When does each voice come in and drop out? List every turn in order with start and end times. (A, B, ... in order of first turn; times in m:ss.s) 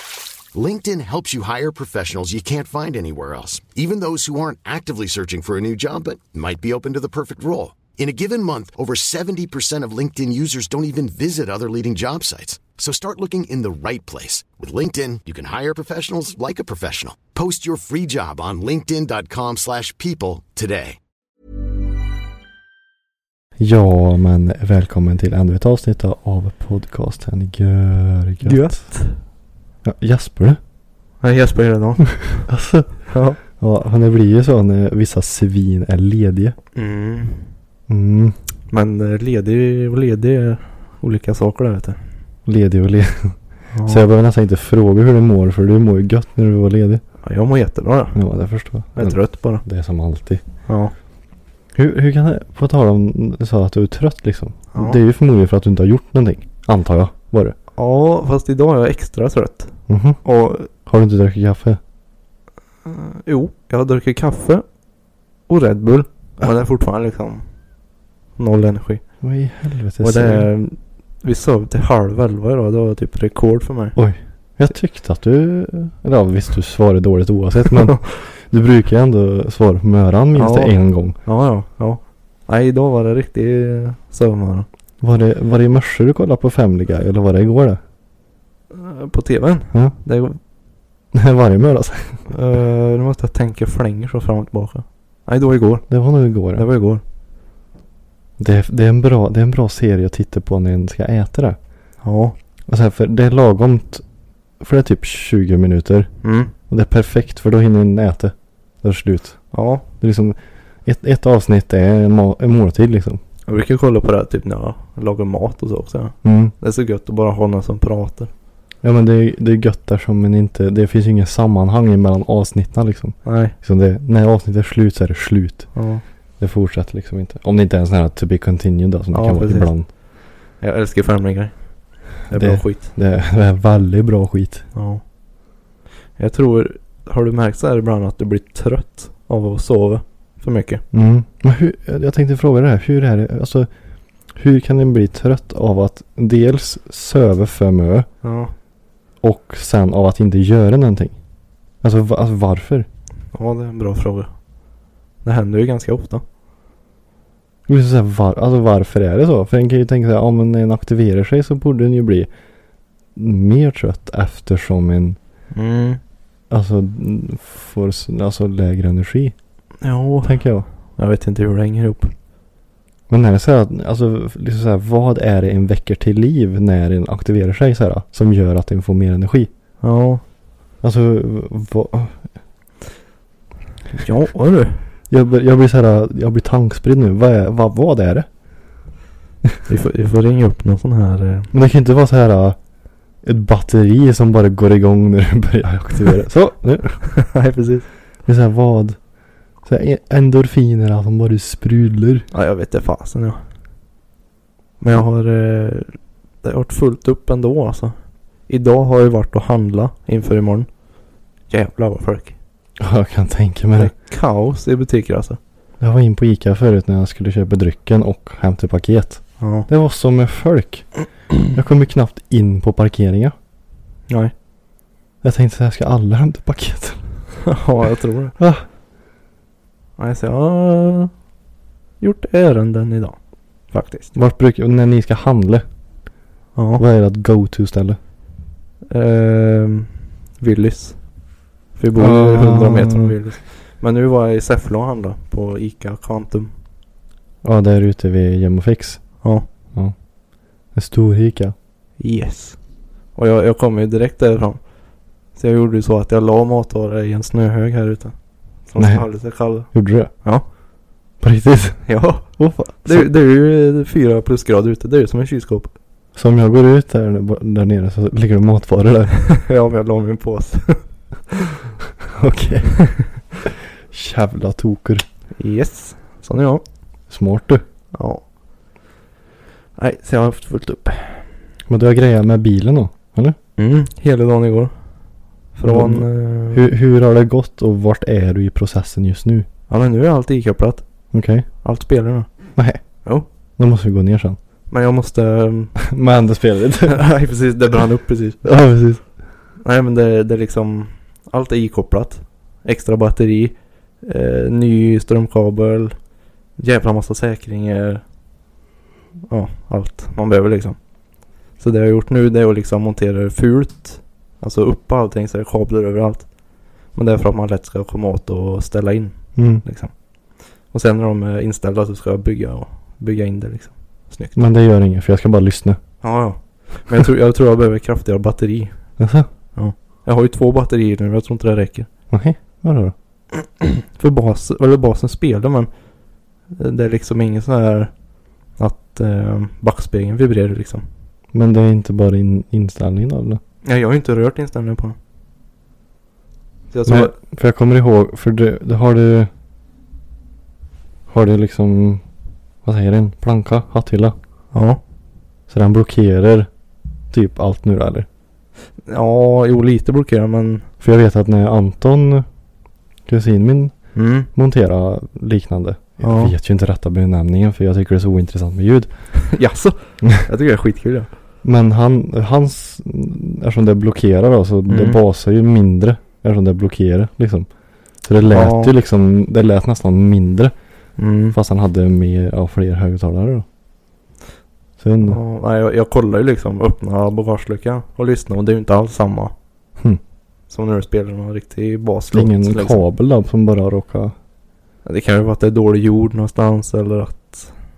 0:00.5-0:21.0 A
0:23.6-0:28.8 B
0:28.4-0:29.2 C
0:29.8-0:30.6 B
0:31.2-0:32.5 C
0:32.5-0:36.6 B
0:33.1-0:33.4 C
0:36.7-0:37.5 C
0:37.9-0:38.4 B
0:38.7-0:42.0 C
0:42.4-0:47.0 B
0:43.7-0:44.0 C
0:47.2-0:48.2 C
0:48.1-0:50.4 B
0:49.0-0:49.6 C
0:50.7-0:50.9 C
0:51.7-0:57.6 B
0:54.7-0:55.0 C
0:57.8-1:00.7 C
0:59.9-1:00.2 B
1:00.7-1:01.8 B
1:02.8-1:04.6 C
1:05.5-1:07.4 C
1:08.4-1:09.0 C
1:09.2-1:10.5 B
1:10.0-1:14.0 C
1:14.0-1:21.2 B
1:20.3-1:24.7 C
1:25.0-1:27.8 B
1:28.7-1:30.4 C
1:31.1-1:32.2 B
1:32.3-1:35.9 C
1:35.9-1:36.6 B
1:36.5-1:37.0 C
1:38.4-1:41.6 B
1:42.0-1:42.3 C
1:42.7-1:44.0 B
1:44.6-1:46.1 B
1:46.2-1:46.5 C
1:46.7-1:49.4 B
1:49.5-1:49.8 C
1:50.0-1:53.2 B
1:53.5-1:58.3 C
1:56.2-1:56.5 B
1:58.8-2:05.7 B
2:03.2-2:03.5 C
2:05.7-2:06.0 C
2:06.4-2:09.9 B
2:09.1-2:09.7 C
2:10.6-2:11.6 C
2:12.1-2:12.9 C
2:12.3-2:14.6 B
2:14.7-2:15.0 C
2:16.2-2:20.8 C
2:20.9-2:23.7 B
2:24.3-2:28.1 B
2:28.2-2:28.5 C
2:29.2-2:31.2 B
2:31.8-2:32.9 B
2:33.3-2:34.3 C
2:35.2-2:36.2 C
2:37.7-2:42.3 B
2:43.1-2:45.2 B
2:45.5-2:46.0 C
2:46.5-2:49.3 B
2:49.8-2:52.1 C
2:50.2-2:50.6 B
2:53.1-2:59.5 B
2:59.8-3:00.2 C
3:00.8-3:02.3 B
3:03.9-3:04.8 C
3:05.1-3:08.2 B
3:09.7-3:11.5 C
3:11.5-3:12.6 B
3:13.2-3:17.0 B
3:17.1-3:17.9 C
3:18.2-3:19.0 B
3:19.6-3:22.3 B
3:22.3-3:23.4 C
3:24.8-3:28.0 C
3:28.5-3:30.7 C
3:31.5-3:32.4 C
3:32.8-3:33.9 B
3:33.8-3:35.4 C
3:35.8-3:40.9 B
3:39.4-3:39.7 C
3:41.5-3:43.3 B
3:45.2-3:47.0 B
3:47.4-3:48.3 C
3:48.4-3:48.6 B
3:50.0-3:51.1 C
3:52.0-3:53.2 C
3:53.7-3:54.1 C
3:54.1-3:55.6 B
3:56.6-3:56.8 C
3:56.8-3:58.0 B
3:58.9-4:01.1 C
4:01.7-4:06.5 C
4:02.0-4:03.1 B
4:07.4-4:09.2 B
4:10.7-4:11.5 B
4:12.0-4:12.6 C
4:13.1-4:14.6 C
4:15.3-4:20.5 C
4:18.8-4:20.1 B
4:21.2-4:23.1 B
4:21.8-4:25.7 C
4:26.1-4:29.1 B
4:29.2-4:30.8 C
4:32.1-4:32.9 B
4:33.9-4:35.0 B
4:35.4-4:36.6 C
4:37.1-4:37.6 B
4:37.9-4:38.2 C
4:39.8-4:41.3 C
4:41.7-4:43.4 B
4:43.6-4:44.7 C
4:45.5-4:46.7 C
4:45.6-4:49.4 B
4:49.7-4:50.8 C
4:51.1-4:51.5 B
4:51.6-4:52.3 C
4:53.6-4:54.4 B
4:54.7-4:55.8 C
4:55.8-4:57.0 B
4:56.8-4:58.4 C
4:58.4-4:59.0 B
4:59.6-5:06.0 C
5:06.6-5:08.0 C
5:09.3-5:10.8 C
5:11.6-5:16.3 C
5:16.9-5:19.9 C
5:19.4-5:19.6 B
5:20.7-5:24.4 C
5:24.4-5:25.8 B
5:26.0-5:28.8 C
5:29.0-5:29.3 B
5:29.5-5:31.9 C
5:32.1-5:32.9 B
5:33.6-5:35.7 C
5:36.5-5:37.9 C
5:38.6-5:40.8 C
5:41.3-5:43.4 B
5:43.6-5:45.0 C
5:46.7-5:47.1 C
5:46.8-5:49.3 B
5:51.1-5:52.0 B
5:52.6-5:54.1 B
5:54.5-5:54.8 C
5:55.5-5:56.5 B
5:57.1-5:58.1 B
5:58.8-6:00.6 C
6:00.8-6:02.2 B
6:03.1-6:03.7 B
6:03.9-6:04.3 C
6:04.3-6:08.9 B
6:06.0-6:06.3 C
6:09.1-6:11.1 C
6:11.4-6:17.5 B
6:14.7-6:15.0 C
6:18.0-6:20.5 B
6:18.2-6:18.7 C
6:21.0-6:21.4 C
6:21.3-6:23.4 B
6:24.8-6:25.2 B
6:25.0-6:29.3 C
6:30.5-6:32.8 C
6:32.1-6:34.1 B
6:34.8-6:37.5 C